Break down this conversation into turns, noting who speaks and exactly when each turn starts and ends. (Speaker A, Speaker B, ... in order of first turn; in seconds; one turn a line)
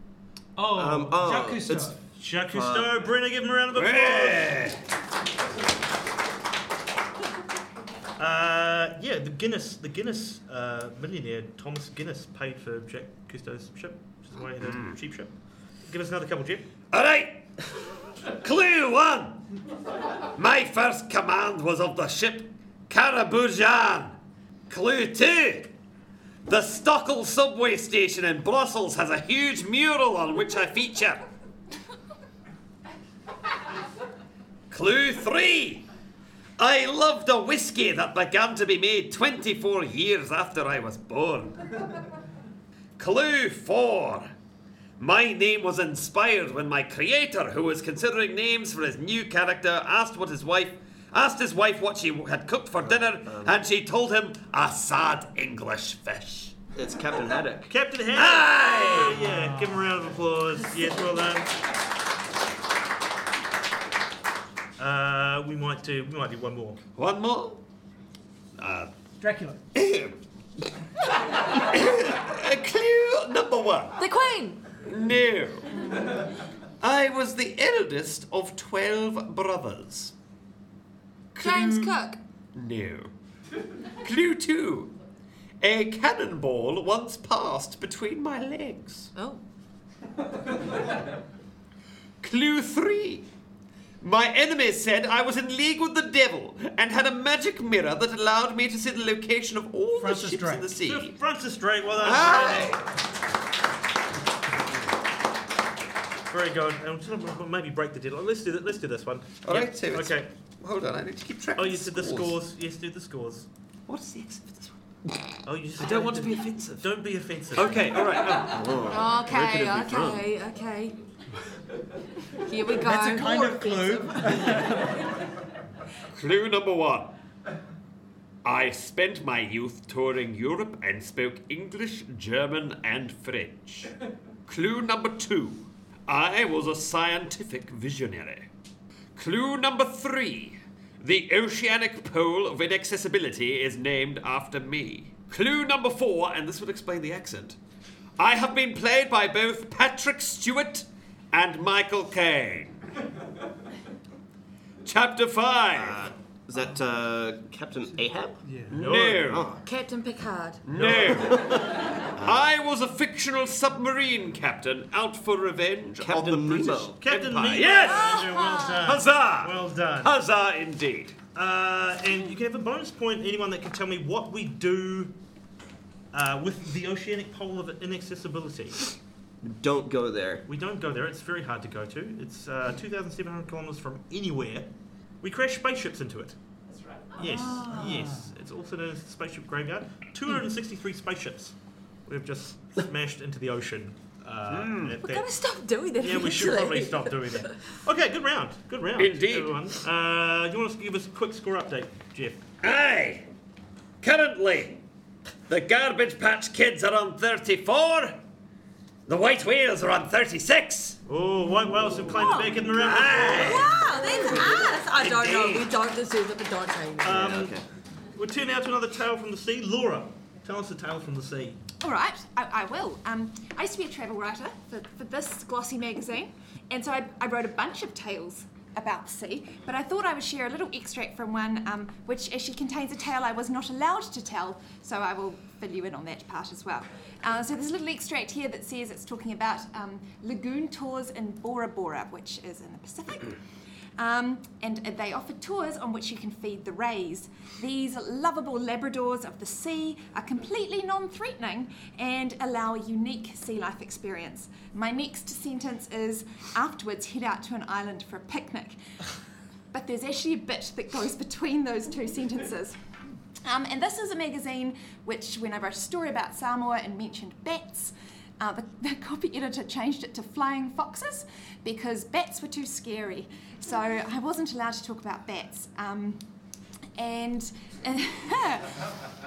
Speaker A: 0.6-2.0
Speaker B: 0.7-1.9
Speaker C: 2.2-4.6
Speaker B: 2.5-2.9
Speaker D: 3.7-4.8
Speaker C: 8.2-15.3
Speaker D: 14.6-14.9
Speaker C: 15.9-16.7
Speaker D: 16.9-17.7
Speaker D: 18.2-19.4
Speaker D: 20.3-24.2
Speaker D: 24.7-25.8
Speaker D: 26.5-31.2
Speaker D: 34.7-35.9
Speaker D: 36.6-41.8
Speaker D: 43.0-44.3
Speaker D: 45.0-56.5
Speaker B: 52.9-53.6
Speaker B: 56.8-57.7
Speaker C: 57.7-61.5
Speaker D: 58.1-59.3
Speaker A: 59.2-59.8
Speaker C: 64.8-66.8
Speaker D: 67.0-67.6
Speaker D: 68.6-68.9
Speaker A: 69.2-69.6
Speaker D: 69.7-70.2
Speaker D: 71.3-74.1
Speaker E: 74.0-74.7
Speaker D: 74.8-75.8
Speaker D: 76.8-80.1
Speaker D: 81.3-83.1
Speaker E: 81.4-82.2
Speaker D: 84.0-85.0
Speaker D: 85.6-89.1
Speaker E: 89.2-89.4
Speaker D: 92.2-93.3
Speaker D: 94.0-101.1
Speaker A: 100.0-100.7
Speaker C: 100.8-102.8
Speaker D: 102.0-102.9
Speaker C: 106.3-110.3
Speaker D: 109.5-112.4
Speaker C: 111.6-113.5
Speaker D: 113.9-115.2
Speaker C: 115.5-118.5
Speaker D: 115.8-116.9
Speaker D: 117.5-118.6
Speaker B: 118.1-120.2
Speaker E: 118.8-121.0
Speaker E: 122.4-124.7
Speaker A: 122.8-125.0
Speaker D: 126.1-127.1
Speaker D: 128.4-133.9
Speaker D: 134.5-138.5
Speaker D: 139.2-147.6
Speaker D: 148.2-152.8
Speaker D: 154.8-156.1
Speaker B: 155.8-159.6
Speaker A: 158.4-158.8
Speaker C: 158.7-159.4
Speaker D: 158.7-159.5
Speaker E: 159.6-160.7
Speaker D: 160.7-171.2
Speaker B: 160.7-162.4
Speaker C: 160.8-161.2
Speaker B: 166.0-167.0
Speaker C: 167.0-170.1
Speaker E: 167.8-168.8
Speaker C: 171.3-175.1
Speaker C: 176.1-178.9
Speaker B: 179.4-180.4
Speaker C: 180.5-184.7
Speaker C: 185.2-186.4
Speaker C: 187.2-191.6
Speaker A: 187.3-188.2
Speaker C: 192.1-195.3
Speaker D: 194.5-195.0
Speaker E: 195.0-197.6
Speaker C: 196.0-202.4
Speaker D: 199.0-199.6
Speaker D: 202.6-203.3
Speaker D: 204.0-204.8
Speaker D: 205.5-208.2
Speaker D: 209.1-211.0
Speaker C: 211.1-213.7
Speaker E: 212.2-212.6
Speaker D: 212.7-215.7
Speaker E: 213.4-217.2
Speaker C: 217.0-217.6
Speaker B: 217.1-217.6
Speaker C: 218.2-221.6
Speaker F: 221.8-243.4
Speaker F: 244.0-258.8
Speaker F: 259.7-262.8
Speaker F: 263.4-276.3
Speaker F: 277.0-278.9